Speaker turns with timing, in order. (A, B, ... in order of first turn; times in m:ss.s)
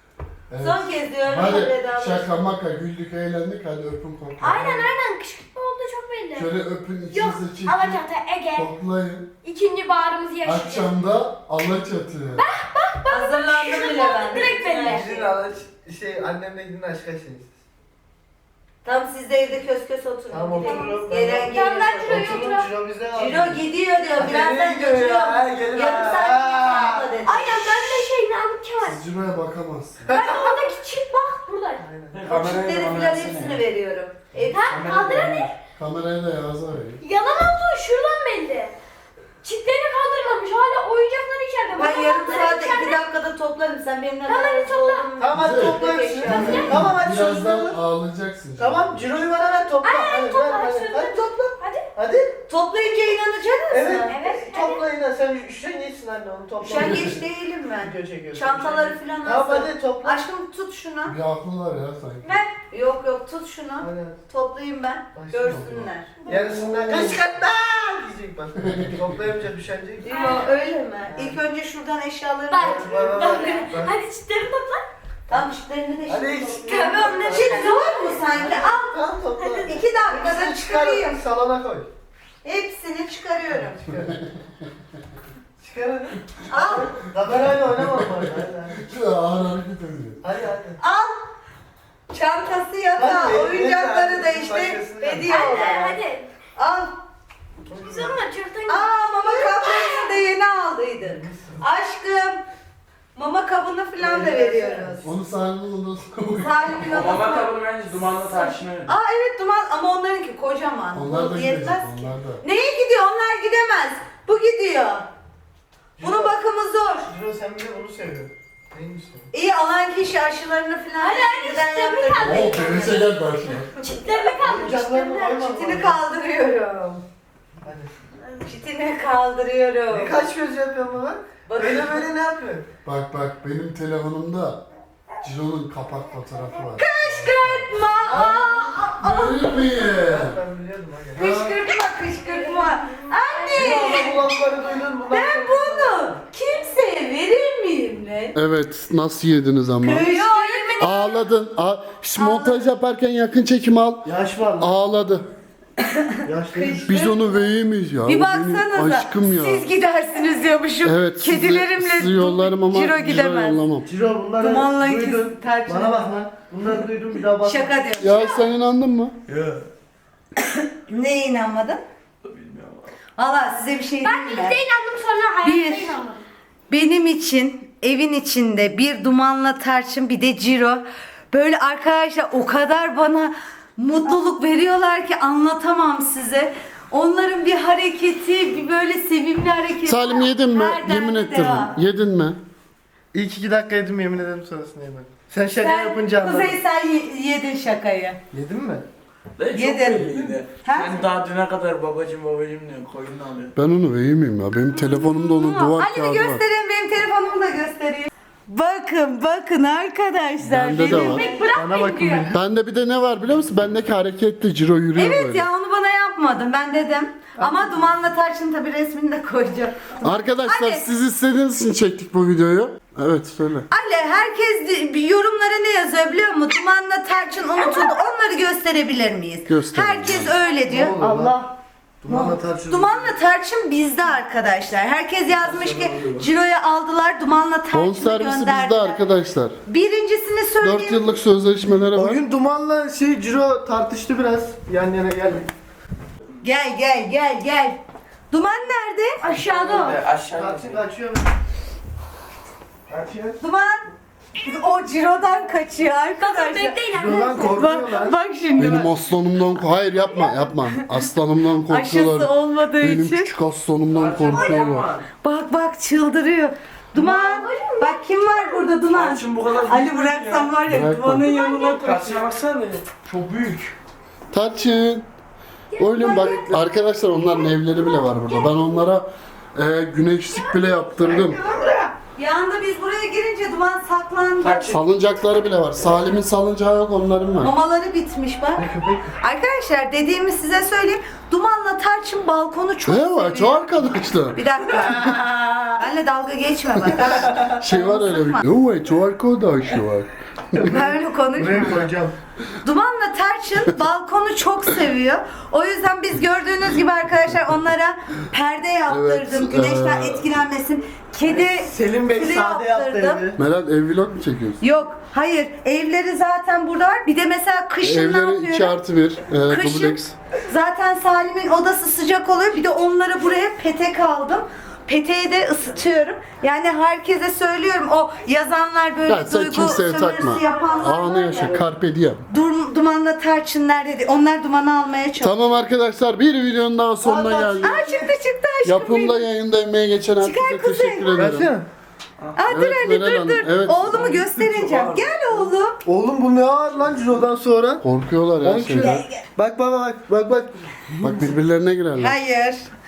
0:00.5-0:04.9 A
0:00.6-0:02.3 B
0:04.4-0:06.5 C
0:06.3-0:09.3 A
0:07.1-0:08.7 C
0:09.4-0:10.9 C
0:10.4-0:12.4 A
0:12.3-0:15.3 C
0:13.1-0:15.1 B
0:14.4-0:17.5 D
0:18.8-0:22.5 B
0:20.3-0:23.6 D
0:20.6-0:20.9 C
0:21.5-0:22.7 C
0:23.1-0:27.6 B
0:24.2-0:27.1 D
0:27.2-0:29.0 C
0:28.8-0:30.1 A
0:30.0-0:30.7 D
0:30.1-0:31.8 C
0:31.8-0:32.3 D
0:32.1-0:33.6 E
0:32.2-0:34.8 B
0:34.5-0:35.6 C
0:34.6-0:35.5 E
0:35.8-0:37.0 A
0:37.0-0:38.7 C
0:39.4-0:43.0 C
0:41.8-0:46.7 B
0:44.2-0:45.1 C
0:45.2-0:47.8 D
0:45.3-0:49.0 A
0:46.3-0:46.8 C
0:48.6-0:52.4 D
0:49.8-0:51.8 C
0:52.5-0:54.2 B
0:53.7-0:57.2 D
0:54.0-0:54.9 C
0:56.6-1:01.1 B
0:56.7-0:57.2 A
0:57.8-1:00.2 D
1:01.0-1:02.4 A
1:02.2-1:06.1 B
1:03.8-1:04.2 D
1:05.1-1:05.6 D
1:05.4-1:05.9 A
1:06.3-1:10.4 D
1:06.8-1:07.1 A
1:08.6-1:08.9 A
1:10.0-1:13.7 B
1:10.0-1:10.4 C
1:11.1-1:11.4 D
1:12.5-1:14.9 C
1:12.6-1:14.0 D
1:15.3-1:19.0 B
1:16.1-1:21.9 D
1:16.6-1:18.2 C
1:19.4-1:19.7 C
1:19.6-1:21.2 B
1:22.4-1:23.8 B
1:23.5-1:24.2 D
1:25.6-1:28.8 D
1:26.5-1:26.9 B
1:27.8-1:28.1 A
1:28.7-1:30.2 A
1:30.2-1:30.8 D
1:30.8-1:31.2 B
1:32.1-1:36.0 B
1:32.9-1:35.4 D
1:35.3-1:36.3 C
1:36.6-1:37.0 B
1:37.7-1:38.2 D
1:37.7-1:40.1 C
1:38.7-1:42.4 B
1:41.0-1:41.6 D
1:43.1-1:45.1 B
1:44.0-1:45.1 D
1:45.0-1:47.1 A
1:46.4-1:47.5 B
1:46.9-1:48.9 E
1:48.2-1:55.1 B
1:50.9-1:52.4 A
1:56.0-1:56.4 D
1:56.0-1:57.1 B
1:57.0-1:59.3 D
1:59.3-2:03.1 B
2:01.0-2:03.0 C
2:02.2-2:03.7 A
2:03.8-2:05.4 C
2:04.4-2:06.0 D
2:05.3-2:07.0 B
2:07.6-2:07.9 D
2:08.4-2:10.2 B
2:09.9-2:12.6 D
2:11.4-2:12.0 B
2:12.8-2:14.6 A
2:15.2-2:20.4 A
2:16.8-2:19.6 B
2:19.8-2:21.4 D
2:21.2-2:24.2 B
2:21.2-2:21.6 A
2:22.2-2:24.3 C
2:23.5-2:26.2 D
2:25.1-2:28.4 B
2:28.3-2:30.1 A
2:29.8-2:31.1 B
2:30.0-2:31.1 C
2:30.8-2:35.3 A
2:32.2-2:32.7 B
2:34.0-2:34.7 D
2:35.8-2:37.2 B
2:36.2-2:36.9 D
2:36.9-2:39.7 A
2:38.0-2:43.6 B
2:40.8-2:43.9 A
2:43.8-2:47.9 D
2:44.4-2:46.2 B
2:47.4-2:48.5 B
2:48.0-2:49.1 A
2:49.3-2:49.6 E
2:50.7-2:51.8 B
2:52.2-2:52.9 E
2:53.2-2:54.6 B
2:54.0-2:56.2 C
2:55.4-2:56.0 B
2:56.7-3:11.8 B
3:09.8-3:12.4 A
3:13.1-3:16.6 D
3:15.6-3:18.2 B
3:18.3-3:18.9 D
3:19.4-3:23.5 E
3:19.5-3:21.1 B
3:23.6-3:26.4 A
3:24.7-3:25.7 C
3:25.7-3:31.4 B
3:30.4-3:31.3 A
3:30.8-3:32.3 C
3:31.5-3:32.4 D
3:32.3-3:35.5 A
3:35.0-3:40.9 B
3:40.0-3:43.7 A
3:43.7-3:51.5 B
3:49.5-3:50.4 A
3:50.7-3:51.4 D
3:52.0-3:53.1 D
3:52.1-3:59.0 B
3:55.4-3:56.2 E
3:57.7-3:59.6 A
3:59.6-4:01.1 B
4:00.6-4:02.2 A
4:01.9-4:05.5 D
4:06.4-4:07.8 B
4:08.3-4:09.2 B
4:09.2-4:10.0 C
4:09.4-4:10.8 E
4:10.3-4:11.3 D
4:12.9-4:13.4 D
4:13.4-4:13.9 B
4:14.4-4:18.9 B
4:16.2-4:17.8 C
4:16.9-4:18.2 D
4:18.6-4:24.9 A
4:20.1-4:21.0 B
4:21.7-4:23.4 B
4:23.9-4:25.1 E
4:24.3-4:24.7 B
4:25.2-4:32.2 B
4:26.9-4:28.7 C
4:28.9-4:30.6 E
4:30.7-4:31.3 A
4:31.3-4:31.8 C
4:31.7-4:33.2 E
4:33.1-4:33.6 A
4:34.3-4:35.0 A
4:35.7-4:38.9 C
4:35.8-4:41.4 A
4:41.5-4:44.7 B
4:44.4-4:44.8 E
4:44.7-4:47.5 A
4:47.4-4:48.7 B
4:48.6-4:49.1 D
4:49.2-4:58.4 B
4:52.9-4:54.4 A
4:57.3-5:00.8 A
5:00.6-5:01.9 B
5:01.4-5:02.1 D
5:02.6-5:13.2 B
5:08.9-5:10.3 A
5:11.2-5:13.4 D
5:13.4-5:14.6 A
5:14.6-5:18.8 B
5:17.8-5:20.1 A
5:19.5-5:31.6 B
5:29.1-5:32.2 A
5:32.3-5:35.6 B
5:35.2-5:37.8 A
5:37.0-5:38.1 D
5:37.6-5:39.2 B
5:38.6-5:41.5 A
5:40.2-5:41.2 B
5:41.1-5:41.7 D
5:42.2-5:42.5 E
5:42.4-5:45.8 B
5:42.4-5:44.3 A
5:44.0-5:45.0 E
5:45.8-5:47.8 D
5:47.8-5:49.0 A
5:48.4-5:51.2 D
5:48.8-5:49.2 B
5:51.0-5:52.2 A
5:52.0-5:52.7 B